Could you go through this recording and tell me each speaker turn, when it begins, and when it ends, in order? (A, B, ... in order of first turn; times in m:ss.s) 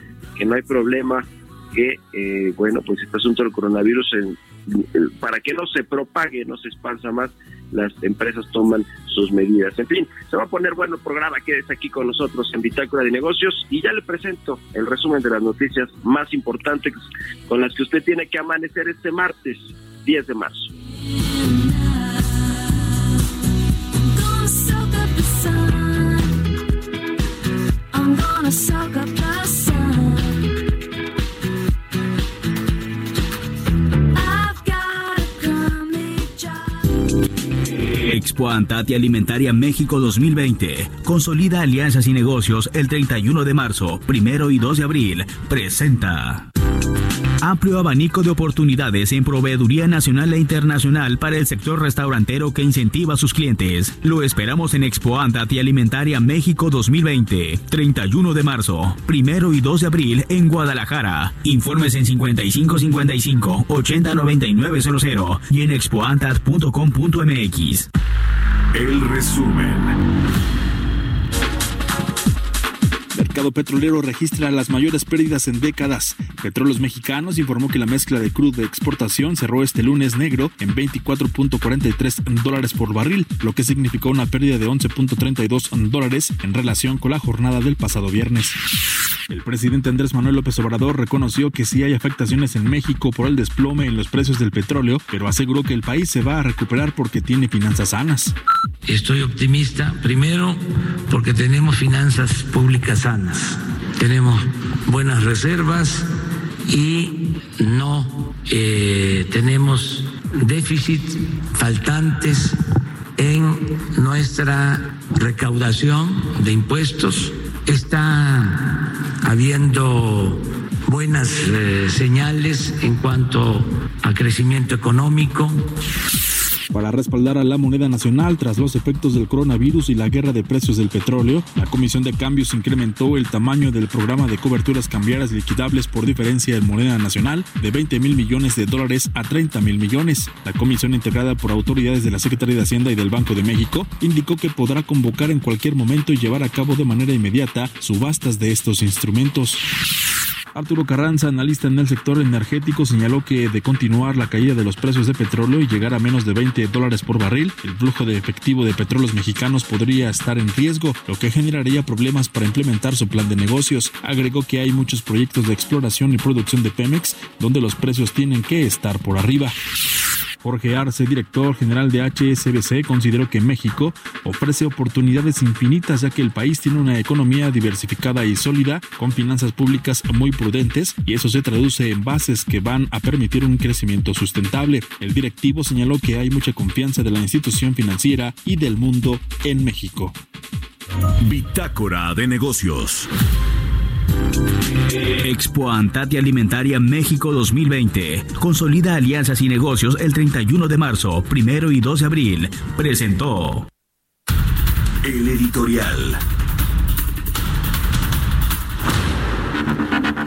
0:00.4-0:17.0 A
0:17.5-0:20.7 A
0:21.1-0:22.6 B
0:24.0-0:26.3 B
0:27.9-0:30.4 B
0:34.1-0:36.9 B
0:37.9-0:46.5 C
0:47.4-1:07.9 C
1:08.7-1:09.9 D
1:13.1-1:28.6 E
1:29.3-1:38.3 E
1:38.8-1:46.1 F
1:46.7-1:52.6 F
1:53.2-2:05.6 F
2:06.7-2:29.6 E
2:30.5-2:49.5 E
2:50.4-3:10.1 E
3:11.2-3:13.1 D
3:15.2-3:23.7 C
3:25.0-3:26.2 D